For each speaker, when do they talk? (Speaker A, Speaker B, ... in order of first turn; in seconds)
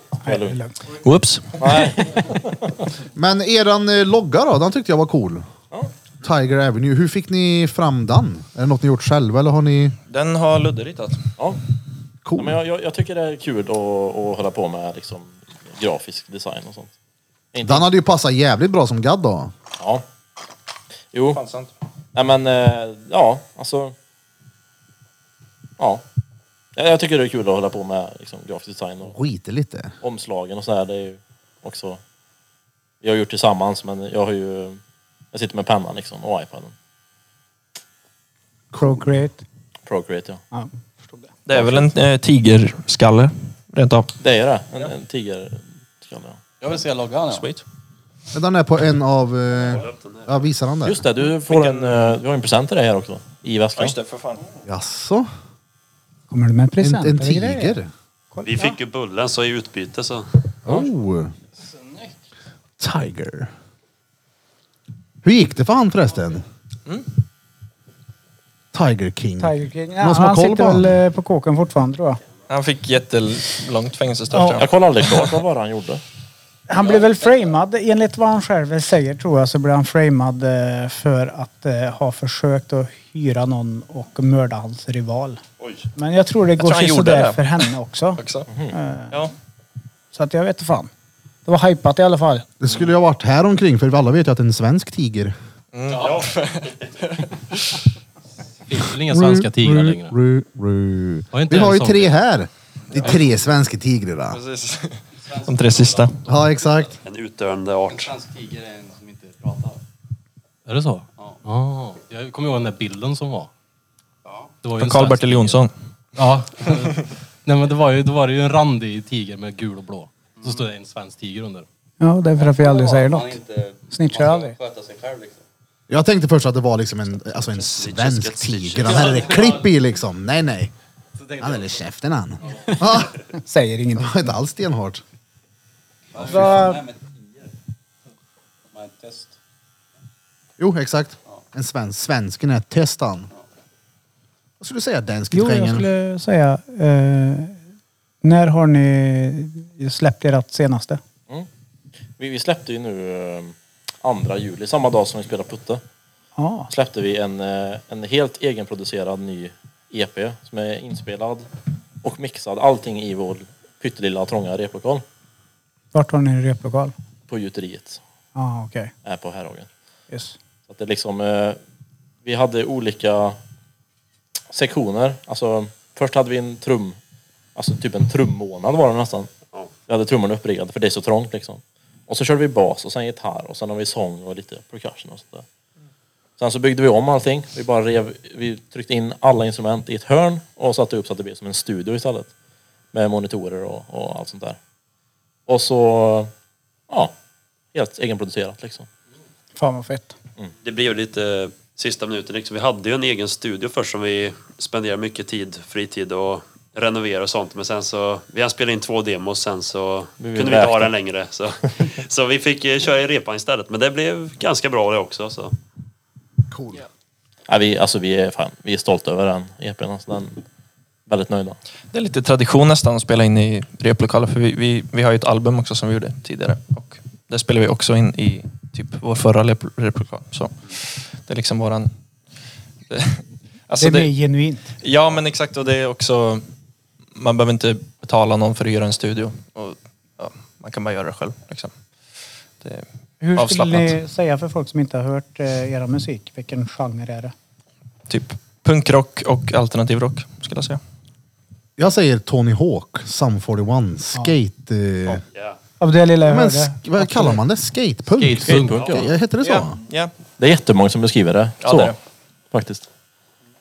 Speaker A: 0.2-0.8, 38.7-39.4, 40.5-41.3, 56.3-57.8, 58.3-58.8, 69.4-72.2, 74.3-74.6, 76.7-85.4, 86.0-88.2, 88.7-89.2, 90.1-90.9, 91.5-92.5, 122.0-123.4, 123.9-124.5, 133.3-134.3, 136.2-136.8, 145.3-147.6, 148.2-151.0, 156.4-156.7, 165.9-166.9, 168.3-168.9, 170.1-170.4, 199.6-200.2, 233.8-234.7, 243.2-247.3, 255.8-257.4
Speaker B: 0.3-0.6, 1.6-2.9, 12.4-16.9, 17.5-17.9, 19.8-20.0, 21.1-21.4, 22.1-23.9, 26.8-29.2, 30.0-32.0, 33.0-34.8, 35.3-36.7, 39.9-40.4, 41.5-41.9, 44.2-46.4, 50.8-54.0, 74.6-76.0, 152.2-155.8, 156.7-161.5, 162.0-165.1, 167.3-168.0, 169.0-169.7, 170.7-171.6, 172.2-173.4, 174.5-177.0, 177.6-179.3, 179.9-185.4, 186.4-192.3, 192.9-194.6, 195.5-196.3, 197.7-198.9, 210.2-210.9, 217.5-220.4, 221.1-221.6, 258.4-259.1, 260.4-261.9, 262.5-262.9
Speaker C: 1.0-1.9, 10.1-11.3, 21.3-21.7, 41.5-44.1, 47.3-47.6, 51.5-52.2, 53.8-54.4, 72.5-75.3, 86.6-87.6, 88.2-88.5, 95.7-97.8, 104.3-106.2, 114.8-115.7, 221.9-231.9, 232.9-234.1, 234.8-236.4, 237.2-241.7, 243.3-244.0, 248.1-250.8, 259.4-260.1, 261.6-262.0
Speaker D: 3.1-5.5, 6.2-10.0, 12.2-12.6, 17.6-19.5, 29.1-29.9, 38.7-39.1, 48.3-51.0, 54.7-55.3, 56.8-57.9, 60.6-61.3, 62.8-63.5, 65.2-66.5, 68.7-71.0, 92.6-95.3, 99.0-104.4, 106.3-107.0, 125.9-130.7, 131.4-133.2, 134.0-135.0, 140.6-143.3, 144.6-145.9, 216.5-216.8, 251.8-255.2, 256.3-259.8
Speaker E: 46.6-47.5, 61.6-62.1, 96.0-96.2, 105.2-106.5, 107.9-109.8, 114.3-114.6, 122.4-125.4, 128.9-129.6, 131.2-131.8, 132.4-132.8, 136.1-137.2, 138.7-139.3
Speaker F: 49.6-50.4, 58.5-60.3, 85.6-85.9, 96.0-96.3, 107.0-108.1, 127.6-129.4, 200.6-215.6, 255.3-255.6
Speaker G: 98.7-100.1, 101.3-102.1, 110.7-113.5, 114.6-115.7, 116.2-121.7, 258.1-258.9